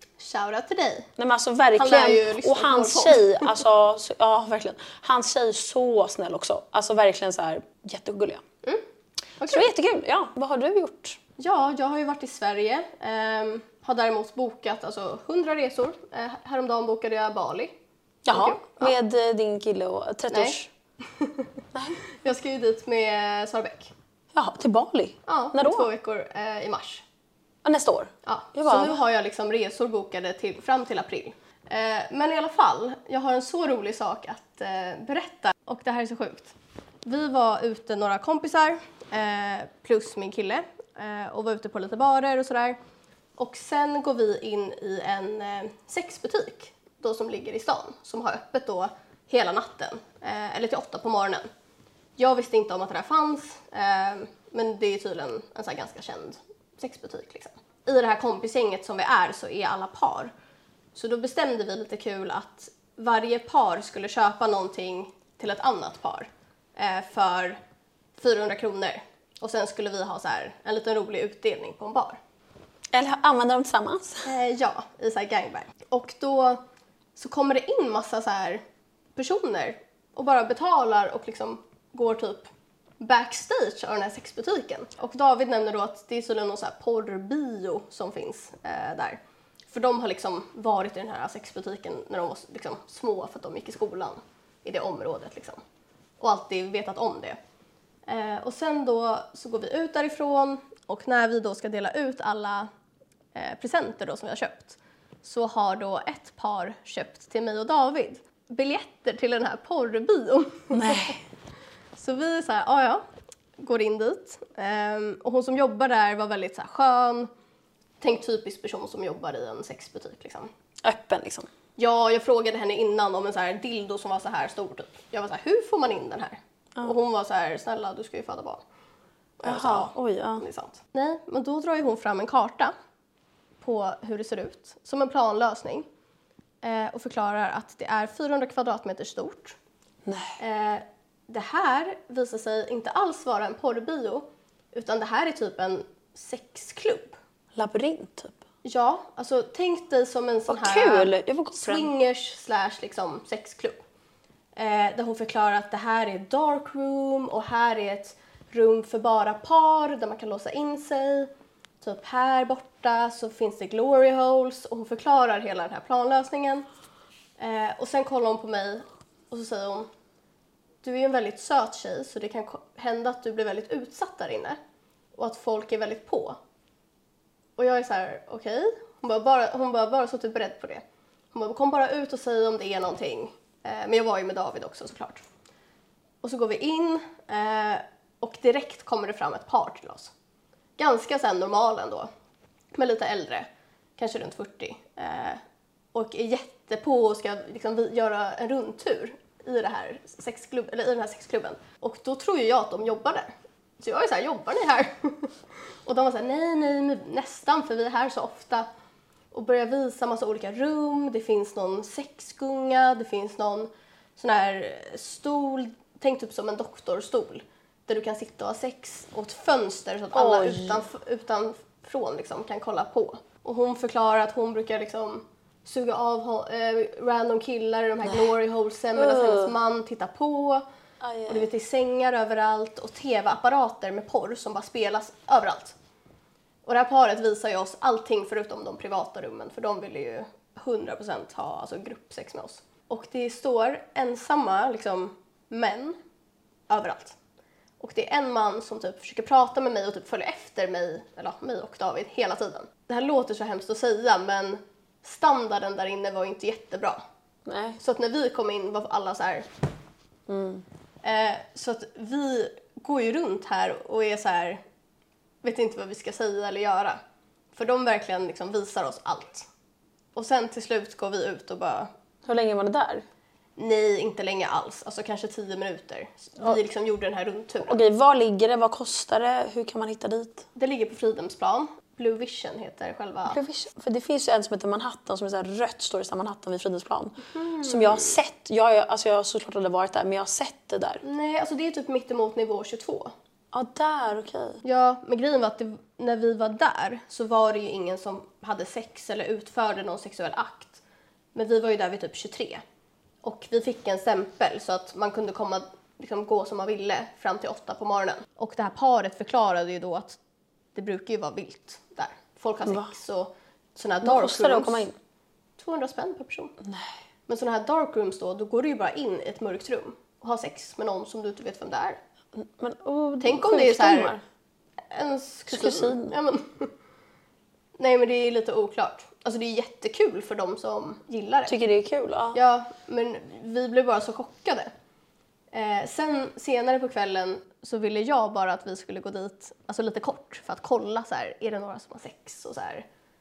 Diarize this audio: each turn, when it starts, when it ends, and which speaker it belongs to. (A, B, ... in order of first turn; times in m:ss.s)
0:00.2-0:01.1 A
0:01.2-0:08.4 B
0:01.8-0:03.5 A
0:09.4-0:09.7 A
0:09.5-0:11.2 B
0:11.4-0:17.7 A
0:18.3-0:20.7 B
0:18.3-0:18.9 A
0:20.3-0:20.6 A
0:21.2-0:21.4 A
0:21.7-0:22.0 B
0:22.2-0:23.9 A
0:24.3-0:25.9 B
0:25.3-0:27.0 A
0:27.6-0:29.0 B
0:28.2-0:36.5 A
0:37.0-0:42.8 A
0:43.4-0:51.5 A
0:52.2-1:00.3 A
1:00.9-1:07.6 A
1:08.2-1:12.2 A
1:12.9-1:14.3 B
1:14.2-1:16.6 A
1:17.2-1:18.6 A
1:19.2-1:29.2 A
1:29.7-1:35.6 A
1:36.2-1:37.4 A
1:38.1-1:42.7 A
1:43.3-1:51.2 A
1:50.7-1:51.2 B
1:52.0-1:53.0 A
1:53.6-1:57.3 A
1:58.0-2:00.5 A
2:00.8-2:01.5 B
2:01.8-2:08.6 A
2:09.4-2:12.7 A
2:09.4-2:10.4 B
2:13.6-2:15.8 A
2:16.6-2:19.5 A
2:20.0-2:20.4 B
2:20.4-2:27.2 A
2:27.6-2:28.4 B
2:28.6-2:33.8 A
2:30.5-2:31.9 B
2:34.5-2:41.3 A
2:41.8-2:46.6 A
2:47.4-2:49.9 A
2:50.8-2:54.6 A
2:55.2-2:56.4 A
2:57.6-3:05.2 A
3:06.2-3:10.1 A
3:10.8-3:12.1 A
3:12.7-3:15.4 A
3:15.9-3:25.3 A
3:25.8-3:28.7 A
3:29.3-3:50.6 A
3:40.1-3:40.8 B
3:49.0-3:49.5 B
3:51.0-3:51.5 B
3:51.3-3:55.7 A
3:56.6-4:06.0 A
4:06.7-4:07.2 A
4:07.8-4:17.0 A
4:17.5-4:17.8 B
4:17.8-4:19.5 A
4:20.3-4:20.6 B
4:21.0-4:24.6 A
4:25.4-4:27.0 A
4:27.5-4:29.5 A
4:30.1-4:31.9 A
4:32.3-4:33.0 B
4:33.6-4:37.8 A
4:37.6-4:40.4 B
4:40.6-4:43.4 A
4:43.3-4:51.0 B
4:47.3-4:48.1 A
4:51.0-4:53.1 A
4:53.5-4:54.6 B
4:54.6-5:00.8 A
5:01.3-5:02.6 A
5:03.2-5:10.2 A
5:10.7-5:14.9 A
5:14.0-5:14.9 B
5:15.6-5:16.5 A
5:16.6-5:16.9 B
5:17.3-5:22.0 A
5:22.4-5:24.2 B
5:23.2-5:24.1 A
5:24.9-5:26.7 A
5:25.5-5:26.1 B
5:27.8-5:31.5 A
5:31.5-5:32.4 B
5:32.3-5:34.7 A
5:35.5-5:42.8 A